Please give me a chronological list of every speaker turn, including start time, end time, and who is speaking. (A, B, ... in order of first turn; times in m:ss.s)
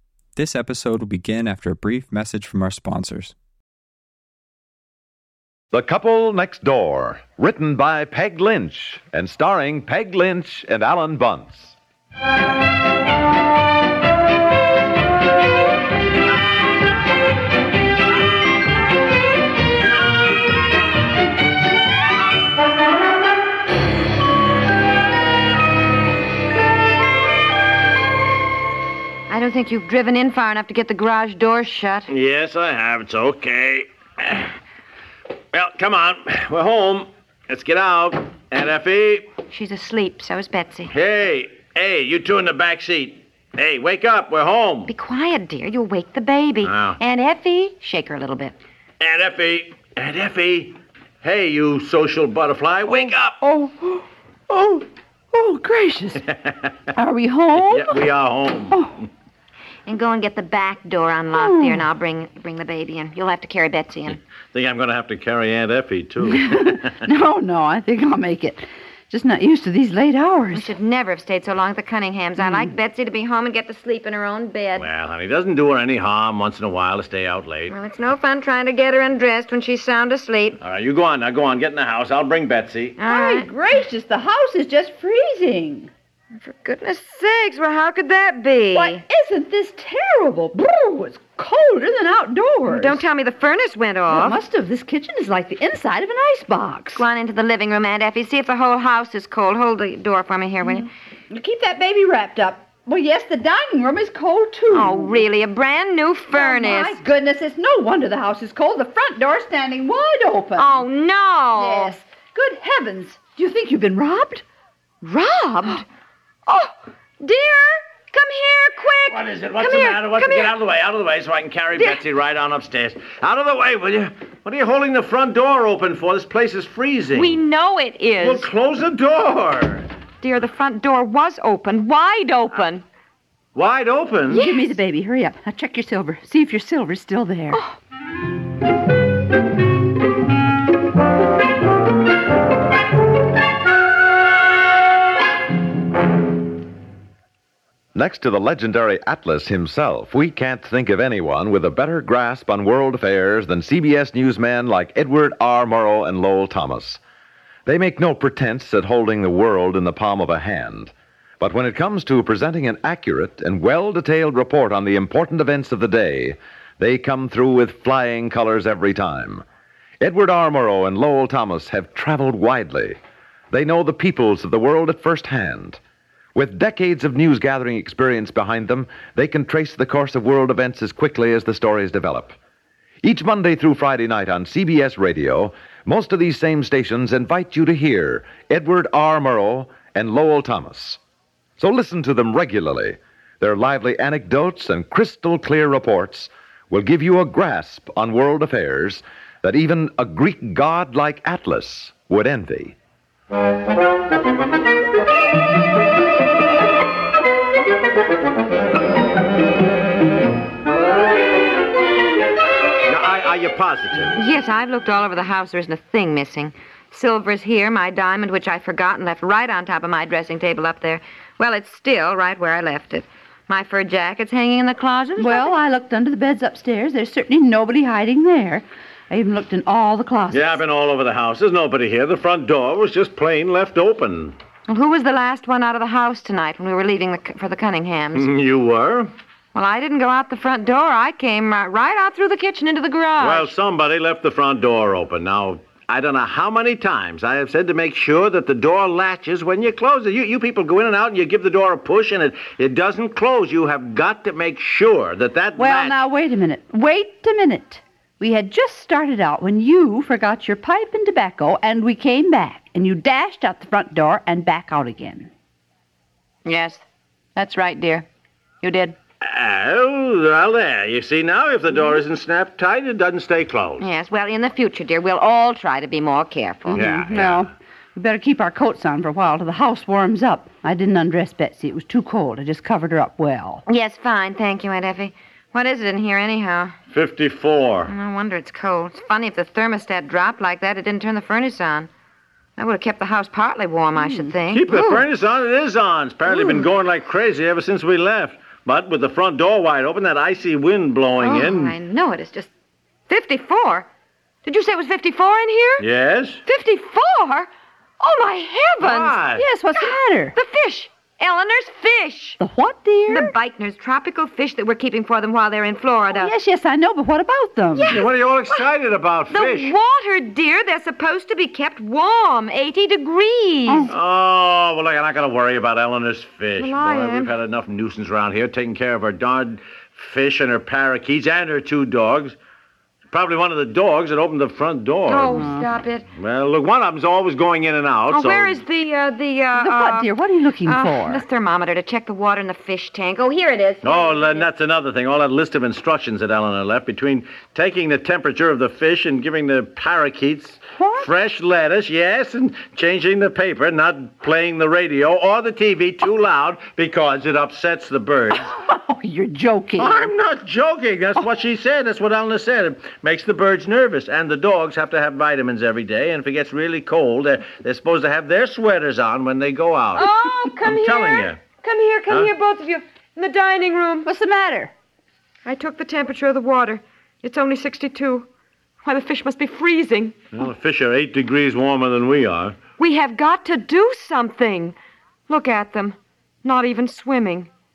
0:00.4-0:03.4 A
0:05.7-0:11.8 B
0:29.3-0:32.1 C
0:32.1-0:34.5 D
0:35.5-0:39.3 D
0:39.5-0:40.9 C
0:40.9-0:44.9 D
0:44.9-0:48.6 C
0:46.6-0:47.0 D
0:49.0-0:53.4 D
0:52.9-0:56.2 E
0:56.3-0:56.7 D
0:56.9-0:58.0 E
0:57.6-0:59.0 D
0:58.7-0:59.0 E
0:59.9-1:04.2 C
1:01.3-1:01.9 E
1:04.5-1:06.9 D
1:06.2-1:10.7 E
1:10.5-1:14.9 C
1:12.4-1:12.7 E
1:14.8-1:17.8 D
1:17.7-1:20.6 C
1:20.6-1:23.0 D
1:23.0-1:23.5 C
1:23.1-1:25.9 E
1:26.4-1:29.0 C
1:28.7-1:33.0 E
1:32.7-1:34.4 C
1:34.1-1:37.0 E
1:37.0-1:40.9 C
1:40.7-1:45.2 E
1:44.7-1:47.0 C
1:46.3-1:50.8 E
1:50.6-1:51.9 C
1:51.6-1:54.4 E
1:55.0-1:55.8 C
1:56.5-2:00.5 C
1:59.1-2:07.4 D
2:07.1-2:08.5 C
2:08.2-2:09.9 D
2:10.2-2:12.8 C
2:13.6-2:14.4 D
2:14.3-2:14.7 C
2:14.3-2:17.6 E
2:27.9-2:37.0 B
2:37.7-2:49.4 B
2:50.0-2:53.0 B
2:53.5-2:55.8 B
2:56.4-3:02.4 B
3:03.0-3:11.0 B
3:11.6-3:22.8 B
3:32.9-3:34.2 D
3:34.2-3:45.5 C
3:45.2-3:50.6 E
3:50.3-3:54.4 D
3:54.7-3:58.3 C
3:58.1-3:59.1 D
3:59.5-4:03.5 C
4:03.2-4:16.0 D
4:15.6-4:25.3 E
4:26.4-4:26.8 C
4:27.4-4:28.1 C
4:28.6-4:29.0 C
4:29.2-4:33.8 D
4:33.8-4:36.9 C
4:36.7-4:43.6 E
4:36.8-4:37.5 D
4:43.7-4:46.8 C
4:46.9-4:47.9 D
4:47.9-4:51.9 C
4:52.6-4:55.1 C
4:54.0-4:54.3 E
4:54.5-5:01.8 D
5:01.2-5:02.5 C
5:03.1-5:03.9 C
5:04.4-5:05.8 C
5:05.8-5:06.4 D
5:06.4-5:07.5 C
5:08.0-5:09.2 C
5:08.8-5:09.4 D
5:09.4-5:10.4 E
5:09.8-5:12.4 C
5:12.4-5:13.3 E
5:13.1-5:16.3 C
5:16.1-5:18.0 E
5:17.8-5:18.6 C
5:17.9-5:19.8 D
5:19.3-5:23.9 C
5:23.9-5:32.4 D
5:26.6-5:27.3 C
5:33.1-5:35.5 D
5:35.1-5:36.1 C
5:35.3-5:35.7 E
5:36.2-5:38.6 D
5:38.1-5:40.1 C
5:39.6-5:41.2 E
5:40.6-5:44.5 C
5:43.8-5:58.5 D
5:50.8-5:51.1 E
5:58.4-6:00.0 E
5:59.8-6:11.4 D
6:10.0-6:14.1 C
6:14.0-6:14.7 E
6:15.4-6:18.3 C
6:18.8-6:20.2 C
6:20.3-6:22.6 D
6:22.8-6:24.8 C
6:25.3-6:27.5 C